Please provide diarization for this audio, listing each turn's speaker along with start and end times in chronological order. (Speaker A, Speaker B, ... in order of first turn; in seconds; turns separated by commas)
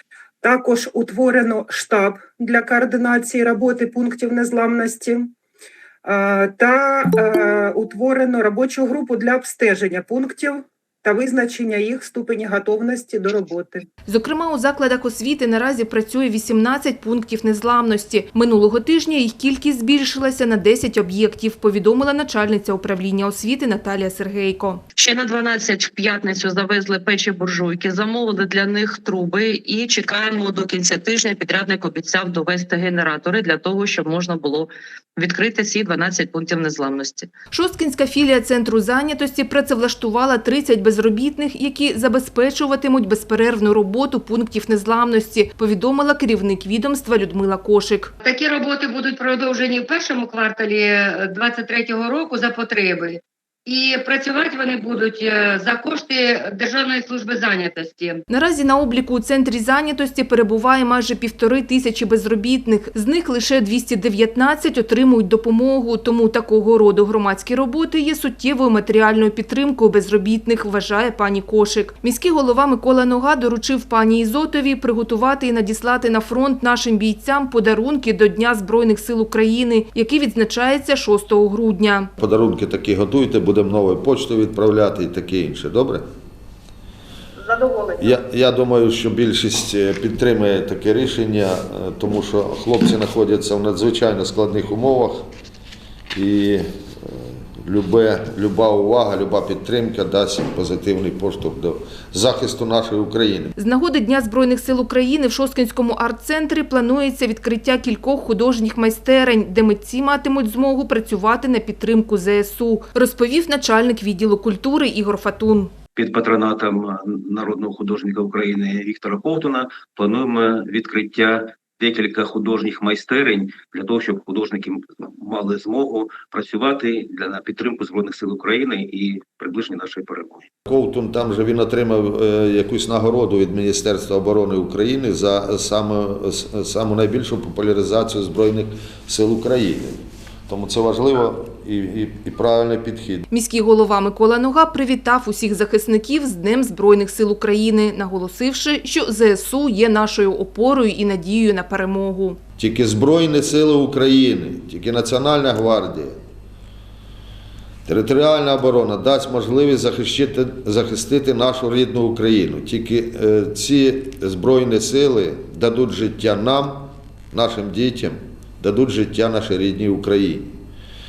Speaker A: 0.4-5.3, Speaker A: 6.0-13.8, Speaker B: 14.1-24.8, Speaker C: 24.9-37.3, Speaker B: 37.5-48.1, Speaker D: 48.2-58.2, Speaker B: 58.3-82.1, Speaker E: 82.2-86.0, Speaker A: 87.4-88.1, Speaker E: 88.0-95.2, Speaker E: 96.1-103.5, Speaker B: 103.5-115.7, Speaker F: 115.9-130.5, Speaker E: 130.7-143.3, Speaker B: 143.3-152.4, Speaker E: 152.6-156.2, Speaker E: 157.8-170.5